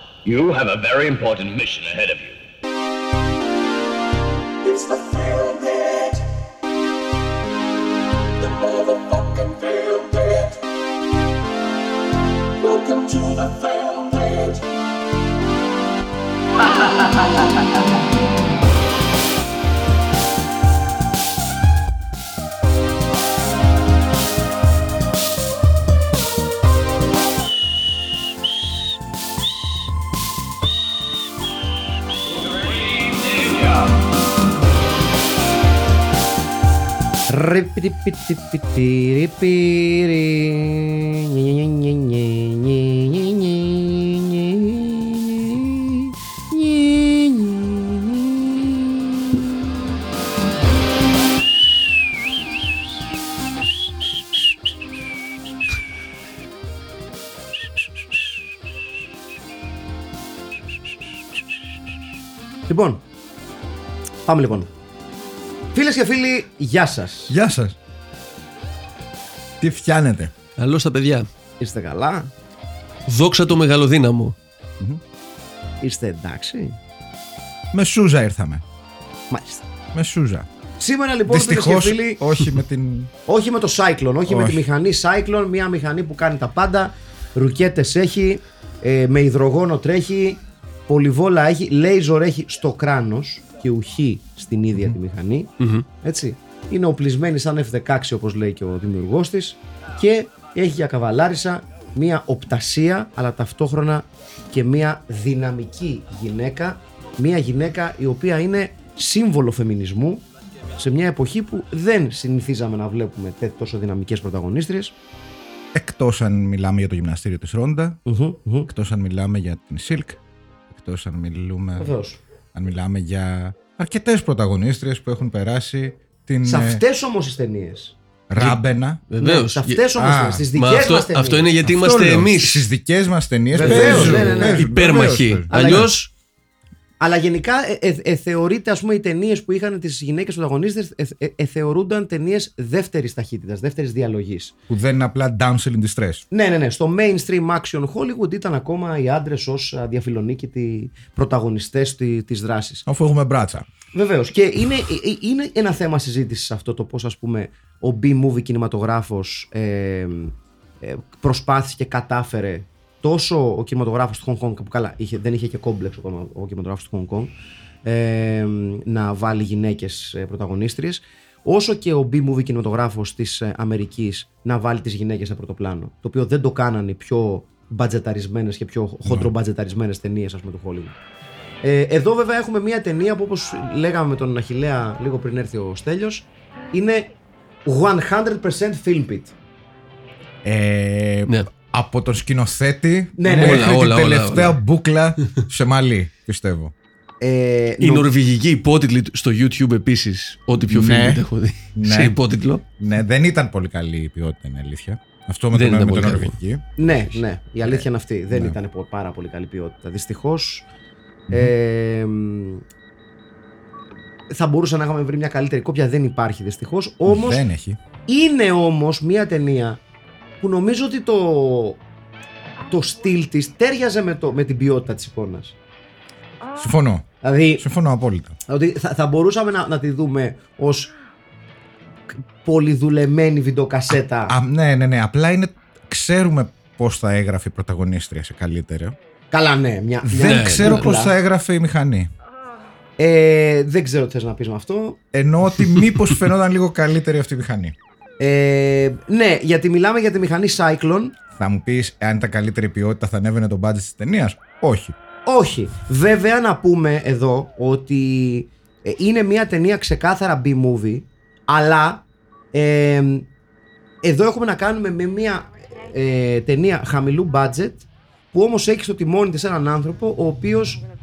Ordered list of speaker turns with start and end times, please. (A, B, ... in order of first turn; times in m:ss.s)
0:00.2-0:02.4 A
0:05.0-0:05.8 B
0:09.2-0:10.2 B
0:12.7-0:13.0 C
0:14.1-0:14.5 B
0:37.3-0:48.9 D
1:02.7-1:03.0 D
1:04.2-1:04.7 D
1:05.7-1:07.3 D
1:07.3-1:07.8 E
1:09.6-1:10.3 E
1:10.6-1:11.3 C
1:11.6-1:12.3 D
1:13.1-1:14.3 C
1:15.8-1:16.8 D
1:17.7-1:18.6 E
1:19.3-1:19.6 D
1:19.9-1:20.5 E
1:20.8-1:22.2 D
1:21.3-1:23.1 E
1:23.3-1:50.2 D
1:24.3-1:24.6 E
1:35.6-1:35.8 C
1:50.8-1:54.9 D
1:55.7-1:58.0 E
1:58.1-1:58.7 D
1:58.7-2:00.2 E
2:00.7-2:01.9 E
2:01.8-2:02.2 D
2:02.5-2:06.8 E
2:06.4-2:08.0 D
2:08.3-2:09.0 E
2:09.1-2:09.8 C
2:09.2-2:11.5 D
2:09.9-2:10.5 E
2:10.5-2:12.7 C
2:11.6-2:15.9 E
2:13.5-2:14.7 D
2:13.6-2:16.1 C
2:15.5-2:15.9 D
2:17.0-2:24.5 D
2:24.7-2:26.2 E
2:26.3-2:32.8 D
2:32.8-2:33.7 E
2:33.9-3:01.0 D
2:59.0-2:59.3 E
3:01.6-3:07.1 D
3:07.7-3:09.3 D
3:10.4-3:16.7 E
3:13.2-3:13.7 D
3:13.3-3:14.6 C
3:17.2-3:18.1 D
3:17.8-3:22.6 C
3:20.7-3:21.2 E
3:21.8-3:22.2 E
3:22.8-3:26.7 E
3:25.5-3:26.3 C
3:26.8-3:30.7 D
3:27.6-3:28.5 E
3:31.3-3:32.6 D
3:34.3-3:37.4 D
3:37.0-3:37.8 E
3:38.1-3:39.8 D
3:40.4-3:41.8 D
3:42.7-3:45.5 D
3:46.6-3:47.0 E
3:47.2-3:47.7 D
3:47.6-3:48.4 E
3:48.5-3:50.9 D
3:52.2-3:54.4 D
3:53.9-3:59.0 E
3:59.3-4:01.1 D
4:00.1-4:02.1 E
4:00.2-4:00.8 C
4:03.0-4:05.0 D
4:05.1-4:07.8 E
4:08.2-4:11.1 D
4:11.4-4:14.9 E
4:15.2-4:23.3 D
4:24.0-4:30.8 D